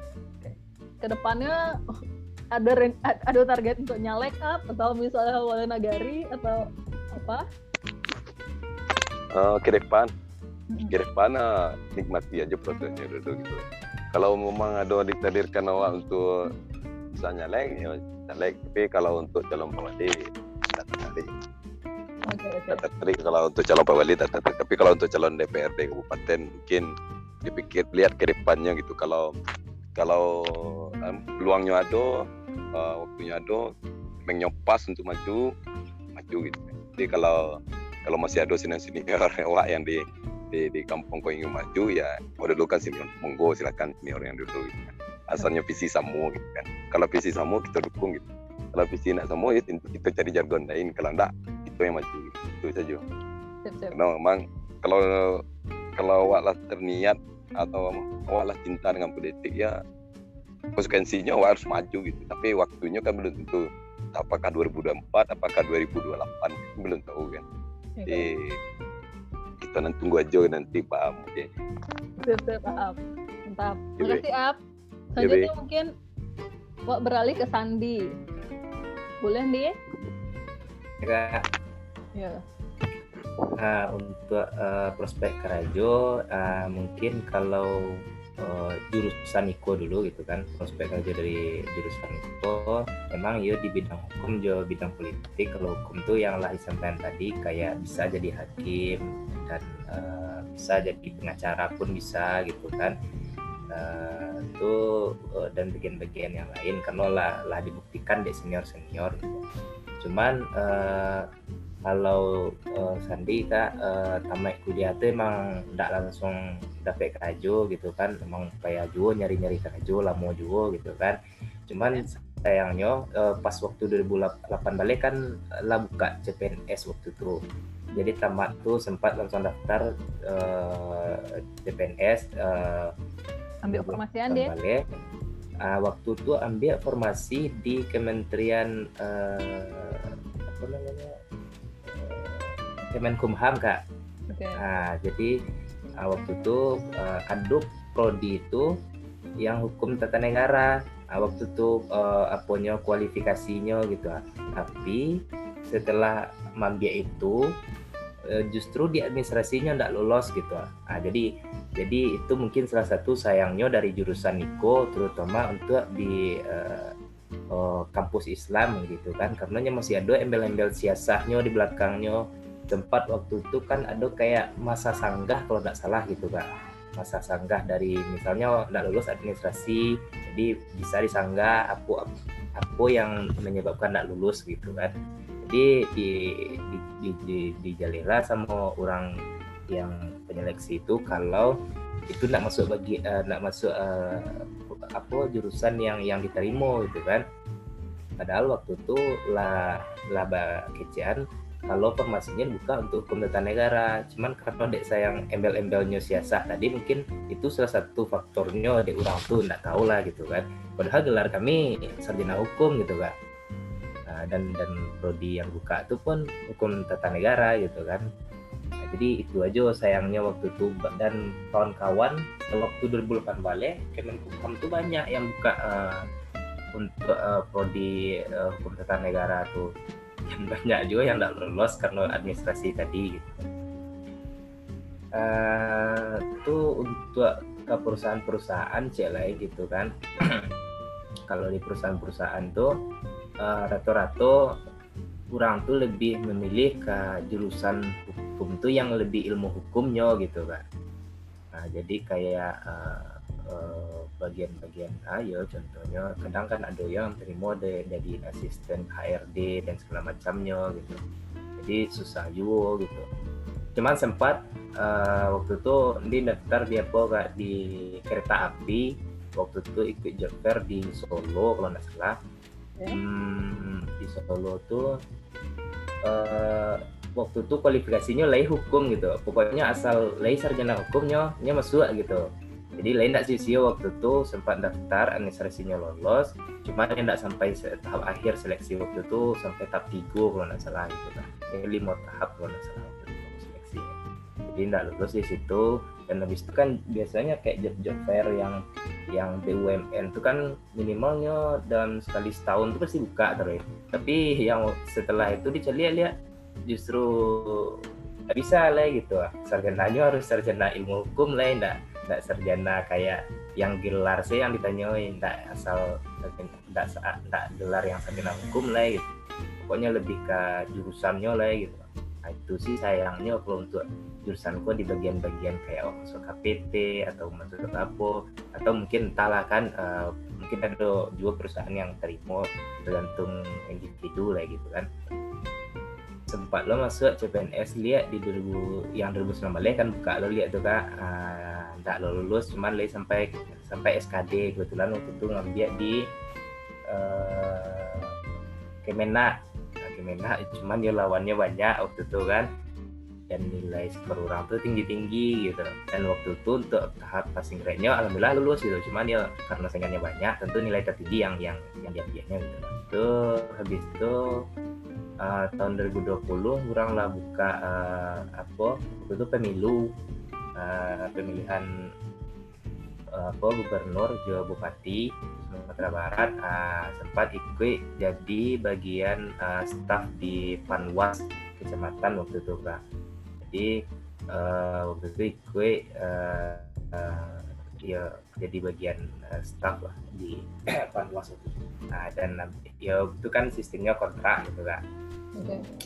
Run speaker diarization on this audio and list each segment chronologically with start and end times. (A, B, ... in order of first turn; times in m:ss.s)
0:00.4-0:01.6 A
0:02.5-0:07.4 A
0:09.3-0:10.1 B
0:10.9-0:16.2 B
0:17.1-0:20.2 B
0:20.7-0:21.3 B
0:22.3-0:22.8 A
0:22.7-0:26.9 B
0:27.4-0:29.3 B
0:30.0-0:32.2 B
0:32.7-0:33.7 B
0:34.3-0:35.5 B
0:36.2-0:48.2 B
0:48.7-0:53.0 B
0:53.6-0:54.0 A
0:53.9-0:55.4 B
0:56.0-0:59.8 B
1:00.8-1:07.4 B
1:08.0-1:08.3 A
1:08.1-1:08.6 B
1:09.6-1:11.5 B
1:12.2-1:13.0 A
1:13.5-1:14.6 A
1:15.1-1:15.9 A
1:15.2-1:15.5 B
1:16.9-1:18.0 A
1:19.2-1:19.7 A
1:21.0-1:21.4 C
1:22.1-1:22.4 A
1:23.6-1:27.7 C
1:28.4-1:42.9 C
1:43.7-1:44.8 C
1:45.4-1:49.4 C
1:50.0-1:51.2 C
1:51.8-2:01.2 C
2:01.7-2:05.2 C
2:05.7-2:07.4 C
2:07.9-2:12.9 C
2:13.6-2:14.5 A
2:13.7-2:14.8 C
2:15.6-2:21.1 C
2:21.9-2:23.8 C
2:24.3-2:24.6 A
2:24.6-2:25.3 C
2:26.0-2:28.7 C
2:29.4-2:35.0 C
2:35.7-2:37.4 C
2:38.3-2:41.2 C
2:41.8-2:46.9 C
2:47.5-3:09.1 C
3:09.7-3:11.5 C
3:12.1-3:14.3 C
3:15.0-3:17.2 C
3:18.2-3:33.1 C
3:34.1-3:38.0 C
3:38.8-3:46.0 C
3:46.8-3:49.7 C
3:50.3-3:53.4 C
3:55.2-4:00.4 C
4:01.3-4:02.7 C
4:03.4-4:04.4 C
4:05.3-4:10.6 C
4:11.5-4:21.0 C
4:21.6-4:23.0 C
4:23.8-4:32.2 C
4:32.9-4:34.9 C
4:36.0-4:42.2 C
4:42.8-4:53.9 C
4:54.5-4:58.6 C
4:59.1-5:06.1 C
5:06.7-5:07.8 C
5:08.3-5:19.0 C
5:19.6-5:34.9 C
5:36.3-5:46.0 C
5:46.9-5:48.1 C
5:48.8-5:49.3 C
5:49.8-5:52.5 C
5:53.3-6:04.4 C
6:05.2-6:09.8 C
6:10.6-6:11.6 C
6:13.1-6:22.8 C
6:23.4-6:23.7 C
6:24.3-6:34.8 C
6:35.4-6:35.6 A